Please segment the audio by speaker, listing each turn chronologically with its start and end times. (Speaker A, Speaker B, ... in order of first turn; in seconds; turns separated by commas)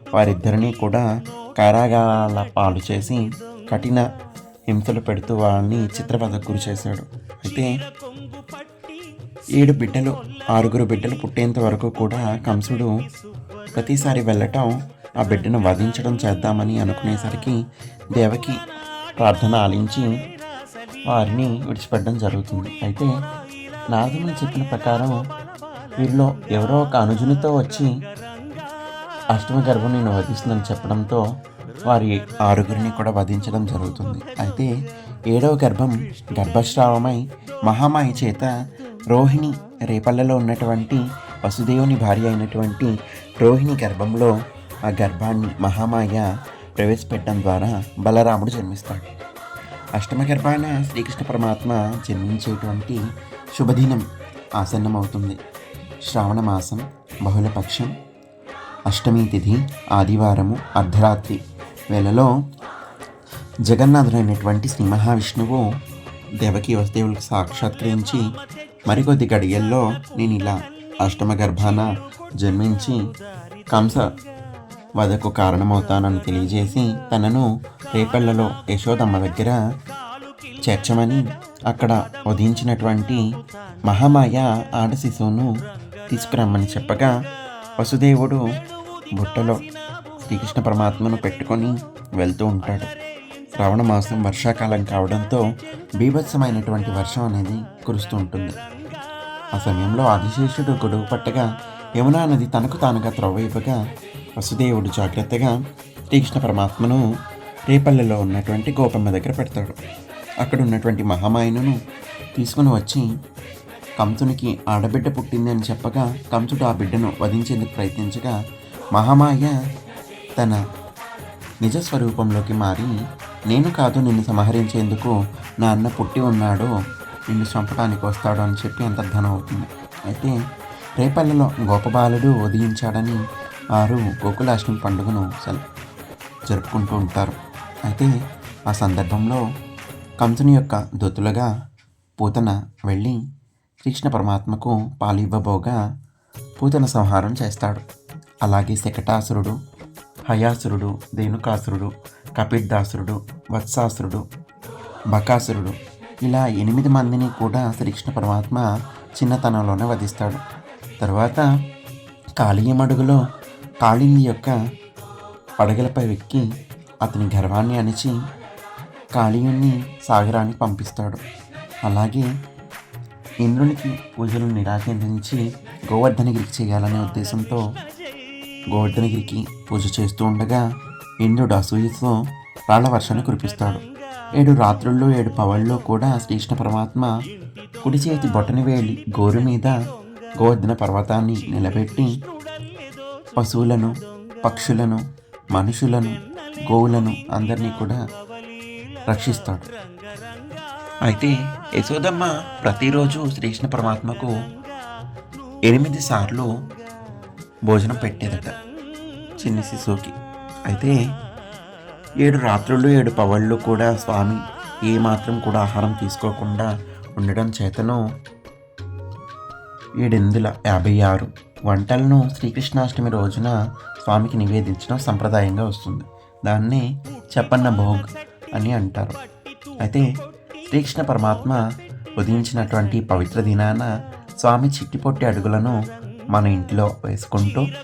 Speaker A: 0.1-1.1, Speaker A: 1.6-4.0, Speaker A: 4.7-7.7, Speaker A: 9.6-12.9, Speaker A: 13.8-17.6, Speaker A: 18.2-18.6, Speaker A: 19.2-20.1, Speaker A: 21.1-23.1, Speaker A: 23.9-25.2, Speaker A: 26.0-27.9, Speaker A: 29.3-31.2, Speaker A: 31.9-34.7, Speaker A: 35.3-38.5, Speaker A: 39.1-44.3, Speaker A: 44.9-46.3, Speaker A: 46.8-49.1, Speaker A: 50.0-53.0, Speaker A: 53.5-54.0, Speaker A: 54.6-55.4, Speaker A: 56.1-57.9, Speaker A: 58.9-61.4, Speaker A: 61.9-62.3, Speaker A: 63.7-65.6, Speaker A: 66.4-68.2, Speaker A: 68.9-71.9, Speaker A: 72.4-73.0, Speaker A: 73.7-74.1, Speaker A: 75.0-79.6, Speaker A: 80.7-83.2, Speaker A: 83.9-85.5, Speaker A: 86.1-87.1, Speaker A: 87.8-88.4, Speaker A: 89.2-89.6, Speaker A: 90.2-92.9, Speaker A: 93.5-95.4, Speaker A: 96.0-98.6, Speaker A: 99.6-101.5, Speaker A: 102.0-103.8, Speaker A: 104.4-105.5, Speaker A: 106.1-107.0, Speaker A: 107.7-109.8, Speaker A: 110.4-111.8, Speaker A: 112.4-113.1, Speaker A: 114.0-118.3, Speaker A: 119.0-119.6, Speaker A: 121.6-122.9, Speaker A: 123.5-126.7, Speaker A: 127.3-130.3, Speaker A: 131.0-133.2, Speaker A: 133.8-135.6, Speaker A: 136.5-138.1, Speaker A: 138.7-139.4, Speaker A: 140.2-141.5, Speaker A: 142.2-143.2, Speaker A: 143.8-145.8, Speaker A: 146.6-147.8, Speaker A: 148.4-149.6, Speaker A: 150.3-154.2, Speaker A: 155.1-158.7, Speaker A: 159.2-160.4, Speaker A: 161.0-161.5, Speaker A: 162.4-163.2, Speaker A: 163.8-164.6, Speaker A: 165.6-166.4, Speaker A: 167.0-168.2, Speaker A: 169.2-171.2, Speaker A: 171.8-172.3, Speaker A: 173.4-177.6, Speaker A: 178.7-180.6, Speaker A: 181.2-182.1, Speaker A: 182.7-183.8, Speaker A: 184.4-187.1, Speaker A: 187.8-189.8, Speaker A: 190.4-192.1, Speaker A: 193.4-195.0, Speaker A: 195.5-196.2, Speaker A: 196.7-198.0, Speaker A: 199.1-199.7, Speaker A: 201.1-204.3, Speaker A: 205.7-206.5, Speaker A: 207.7-208.5, Speaker A: 209.4-210.2, Speaker A: 210.7-211.0, Speaker A: 212.2-218.0, Speaker A: 220.0-229.2, Speaker A: 230.7-231.6, Speaker A: 232.2-233.9, Speaker A: 234.4-235.8, Speaker A: 236.3-237.7